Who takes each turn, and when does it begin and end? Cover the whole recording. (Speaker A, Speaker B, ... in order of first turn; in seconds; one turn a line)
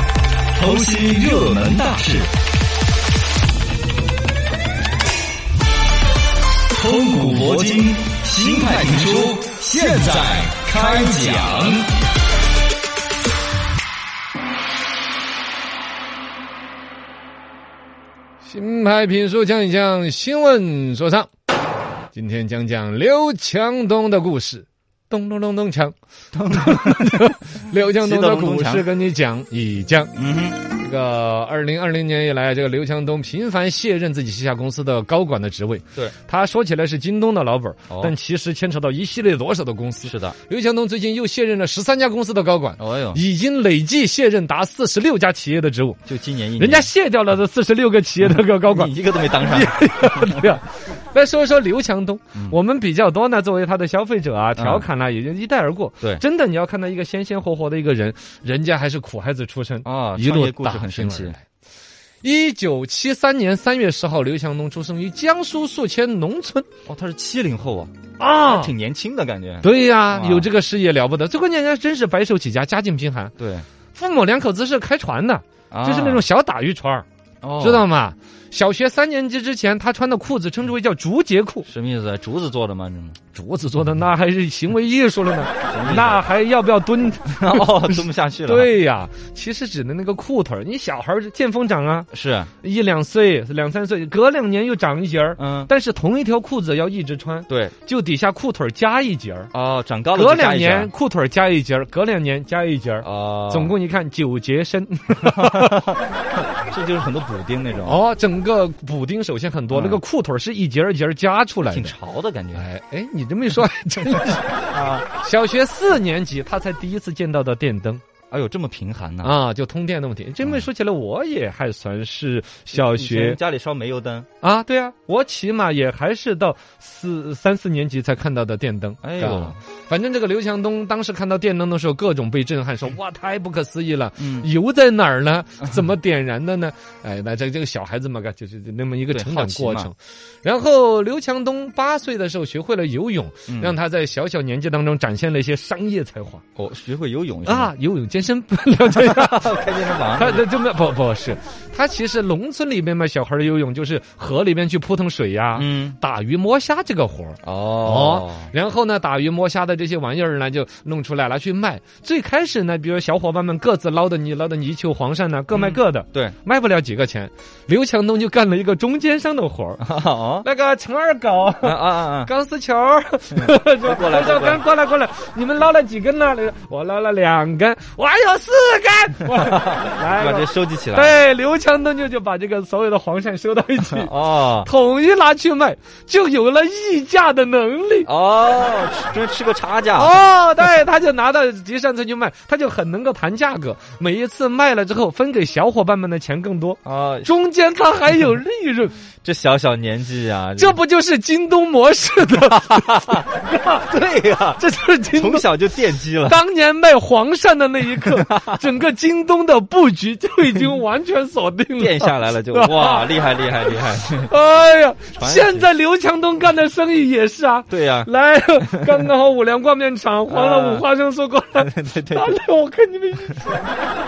Speaker A: 0.6-2.3
Speaker A: 6.8-11.9
Speaker B: 18.4-21.3
Speaker B: 22.1-25.9
Speaker A: 26.3-28.9
Speaker B: 26.5-46.0
Speaker A: 30.1-30.6
Speaker A: 40.0-40.4
Speaker A: 42.8-43.2
Speaker A: 46.1-46.9
Speaker B: 46.6-61.4
Speaker A: 48.2-50.5
Speaker A: 54.6-54.9
Speaker A: 59.9-61.4
Speaker B: 62.2-66.7
Speaker A: 66.9-67.9
Speaker B: 68.2-68.7
Speaker A: 68.4-70.5
Speaker B: 69.6-73.3
Speaker A: 73.4-73.7
Speaker B: 73.9-77.0
Speaker A: 75.7-76.3
Speaker A: 77.4-77.9
Speaker B: 77.6-81.7
Speaker A: 81.7-83.2
Speaker B: 83.3-92.1
Speaker A: 85.7-86.2
Speaker A: 87.3-88.7
Speaker A: 92.1-92.5
Speaker B: 92.6-99.5
Speaker A: 95.4-95.7
Speaker A: 97.5-97.7
Speaker A: 99.5-100.9
Speaker B: 100.1-106.0
Speaker A: 103.0-103.8
Speaker A: 105.2-106.0
Speaker A: 106.7-108.0
Speaker B: 107.9-111.9
Speaker A: 109.7-110.0
Speaker A: 111.6-112.7
Speaker B: 112.5-114.7
Speaker A: 114.7-115.1
Speaker B: 115.2-118.0
Speaker A: 118.3-119.3
Speaker B: 119.2-123.4
Speaker A: 122.7-124.3
Speaker B: 124.4-146.4
Speaker A: 129.0-129.6
Speaker A: 134.2-134.5
Speaker A: 139.1-139.9
Speaker A: 143.5-143.8
Speaker A: 146.6-147.7
Speaker B: 147.4-149.6
Speaker A: 148.8-150.5
Speaker B: 150.1-169.9
Speaker A: 155.6-156.0
Speaker A: 157.4-158.5
Speaker A: 165.5-166.3
Speaker A: 169.8-170.5
Speaker B: 170.4-188.1
Speaker A: 171.6-172.3
Speaker A: 173.3-174.6
Speaker A: 179.3-181.2
Speaker A: 183.9-184.7
Speaker A: 188.1-190.2
Speaker B: 190.0-199.0
Speaker A: 196.8-197.3
Speaker A: 199.2-200.8
Speaker B: 200.6-203.9
Speaker A: 202.7-203.1
Speaker A: 203.8-206.4
Speaker B: 204.6-205.5
Speaker B: 206.3-213.1
Speaker A: 208.0-208.7
Speaker A: 211.8-214.3
Speaker B: 213.6-223.7
Speaker A: 215.1-215.7
Speaker A: 217.7-218.1
Speaker A: 218.6-219.1
Speaker A: 220.3-220.8
Speaker A: 221.6-222.4